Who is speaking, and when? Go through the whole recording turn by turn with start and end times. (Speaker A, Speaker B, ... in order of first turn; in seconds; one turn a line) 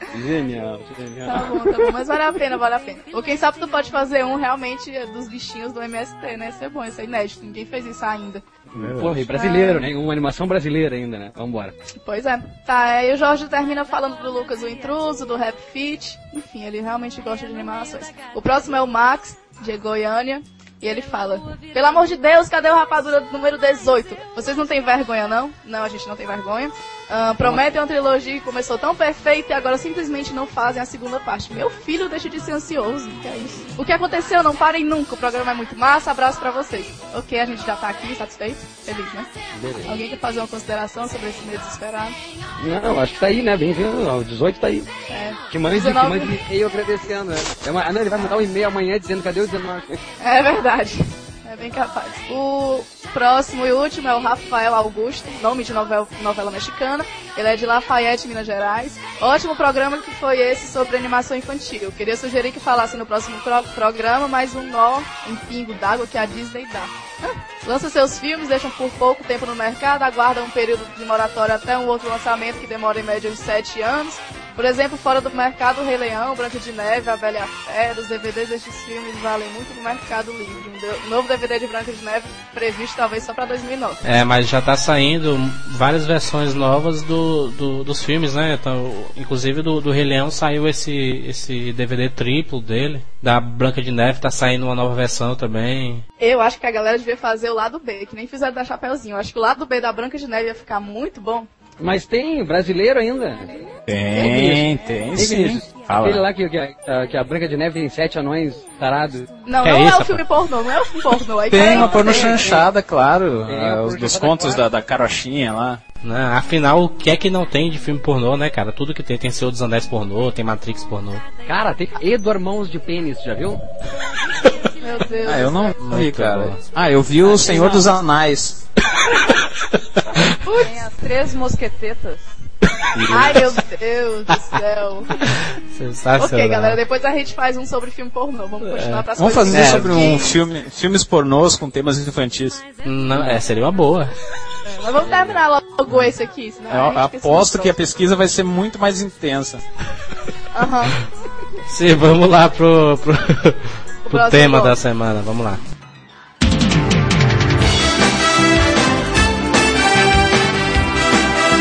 Speaker A: 0.1-1.9
Speaker B: 1.3-8.4
Speaker A: 8.7-11.8
Speaker C: 8.8-9.2
Speaker B: 9.3-9.9
Speaker B: 12.1-39.3
Speaker A: 39.5-40.0
Speaker B: 39.9-42.2
Speaker A: 42.6-44.9
Speaker B: 45.1-46.4
Speaker A: 45.5-50.0
Speaker B: 50.2-84.0
Speaker D: 84.0-96.0
Speaker B: 96.2-101.5
Speaker A: 101.8-103.6
Speaker C: 103.9-106.2
Speaker B: 104.1-104.6
Speaker A: 104.2-109.3
Speaker B: 109.5-112.6
Speaker D: 109.6-110.2
Speaker C: 111.5-115.8
Speaker A: 111.5-112.5
Speaker A: 113.5-114.6
Speaker D: 116.0-121.2
Speaker A: 121.5-123.6
Speaker B: 124.8-125.7
Speaker C: 125.2-128.6
Speaker D: 125.8-126.6
Speaker A: 127.2-127.9
Speaker E: 130.3-132.2
Speaker C: 132.9-133.5
Speaker B: 133.1-135.3
Speaker D: 135.2-136.8
Speaker B: 136.2-140.4
Speaker D: 138.7-140.2
Speaker C: 139.2-142.6
Speaker D: 142.8-144.1
Speaker B: 144.7-147.8
Speaker C: 146.7-149.6
Speaker B: 150.5-151.0
Speaker D: 151.7-155.6
Speaker B: 154.1-154.8